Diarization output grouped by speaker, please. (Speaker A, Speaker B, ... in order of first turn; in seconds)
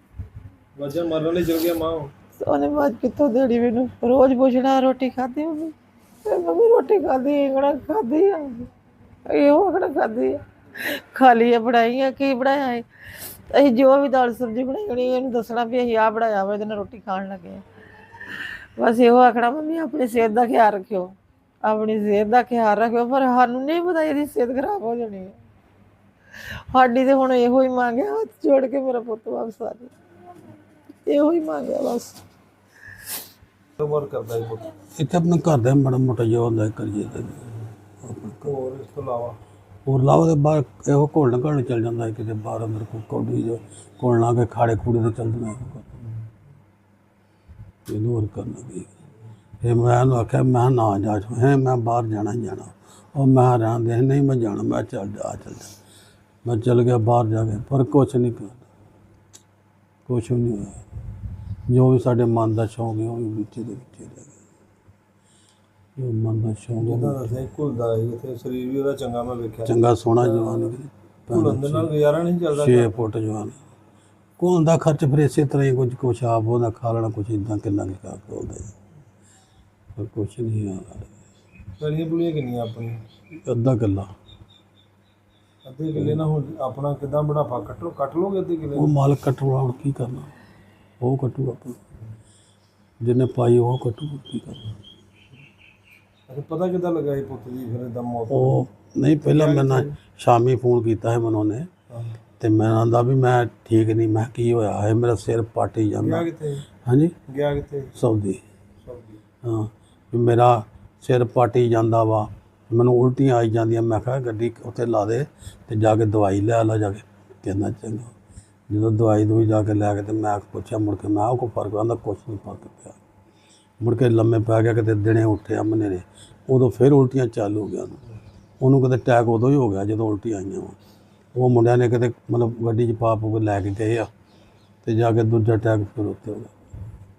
Speaker A: 0.8-2.1, 33.8-34.7, 38.4-39.4, 66.8-70.7, 71.3-73.0, 81.8-83.0, 85.7-88.9, 96.3-98.6, 99.2-99.9, 106.0-106.7, 107.3-107.9, 108.8-109.2
Speaker B: 2.4-8.7, 9.3-12.9, 13.5-17.6, 18.8-25.4, 26.7-29.9, 31.1-32.2
Speaker C: 35.0-37.5, 38.0-38.5, 39.9-45.9, 47.9-48.9, 49.6-55.7, 56.5-58.6, 60.1-60.8, 61.7-64.4, 66.0-67.2, 69.7-71.9, 72.5-73.6, 74.4-78.7, 80.0-81.1, 83.5-84.1, 86.0-86.2, 88.8-90.3, 91.0-91.8, 93.0-94.7, 98.3-101.7, 102.4-106.3, 106.8-107.1, 108.0-108.4, 109.4-118.1, 118.7-123.0, 123.8-128.0, 128.6-130.8, 131.3-134.1, 134.8-136.5